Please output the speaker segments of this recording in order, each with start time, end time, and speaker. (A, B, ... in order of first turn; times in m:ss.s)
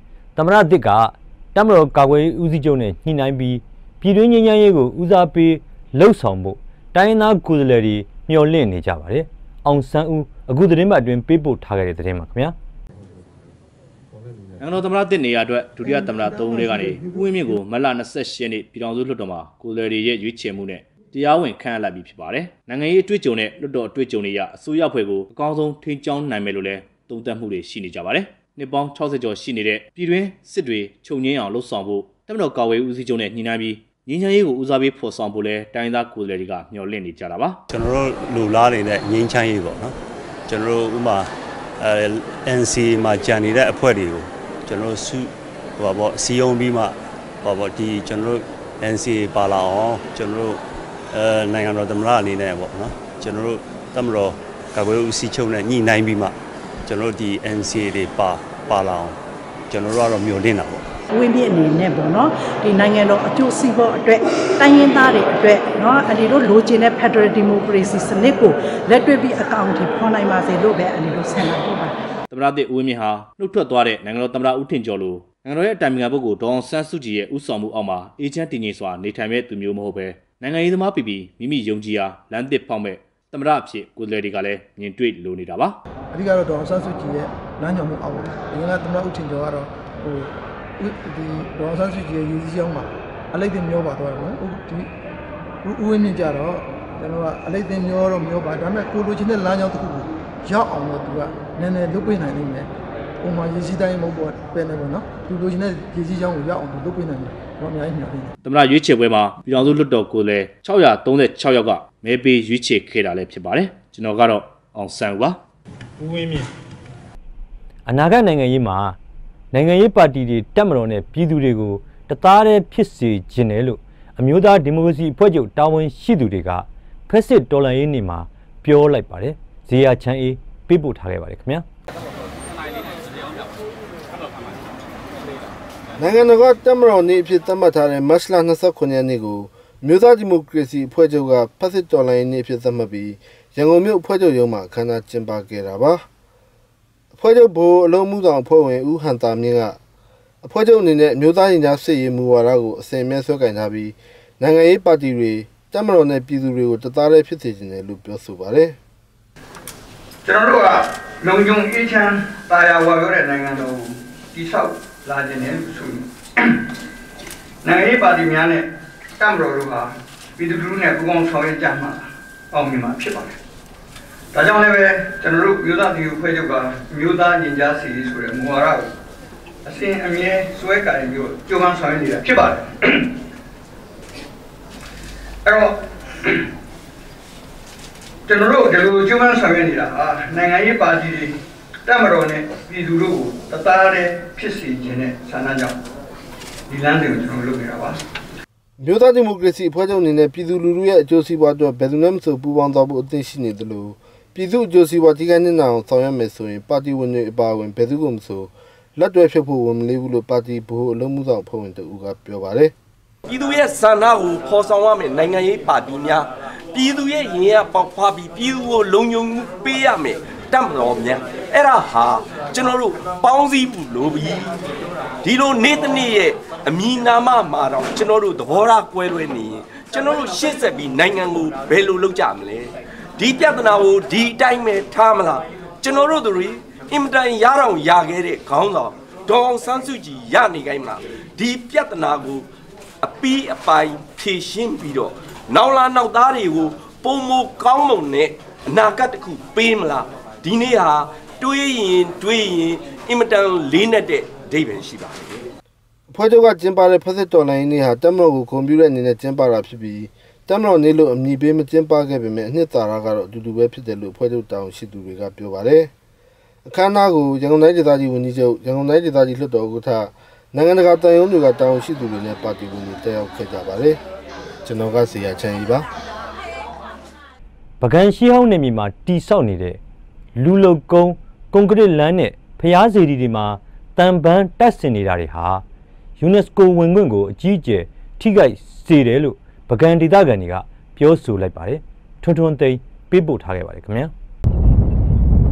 0:00.4-0:12.5 A
0:14.6-0:37.6 B
0:37.7-0:40.0 C
0:40.5-0:50.6 C
0:51.1-0:56.4 C
0:56.8-0:59.2 C
0:59.7-1:00.8 C
1:01.1-1:12.0 D
1:12.3-1:25.8 B
1:26.1-1:34.9 E
1:35.6-1:42.7 E
1:43.2-1:48.3 E
1:48.4-1:55.4 B
1:57.9-1:59.0 A
1:59.5-2:11.6 A
2:16.0-2:26.0 F
2:27.1-2:29.8 F
2:30.4-2:38.8 F
2:40.2-2:46.0 G
2:47.6-2:48.6 G
2:49.2-2:52.0 G
2:52.5-2:53.3 G
2:54.3-2:58.9 G
2:59.7-3:02.7 G
3:05.5-3:05.7 G
3:08.3-3:11.3 G
3:11.9-3:15.7 G
3:16.7-3:17.9 G
3:18.8-3:32.7 F
3:33.2-3:44.6 H
3:45.2-4:02.5 H
4:03.0-4:15.4 H
4:16.1-4:25.9 F
4:26.6-4:34.0 F
4:34.6-4:35.9 F
4:37.8-4:39.8 A
4:40.4-4:45.6 A
4:46.2-4:54.1 A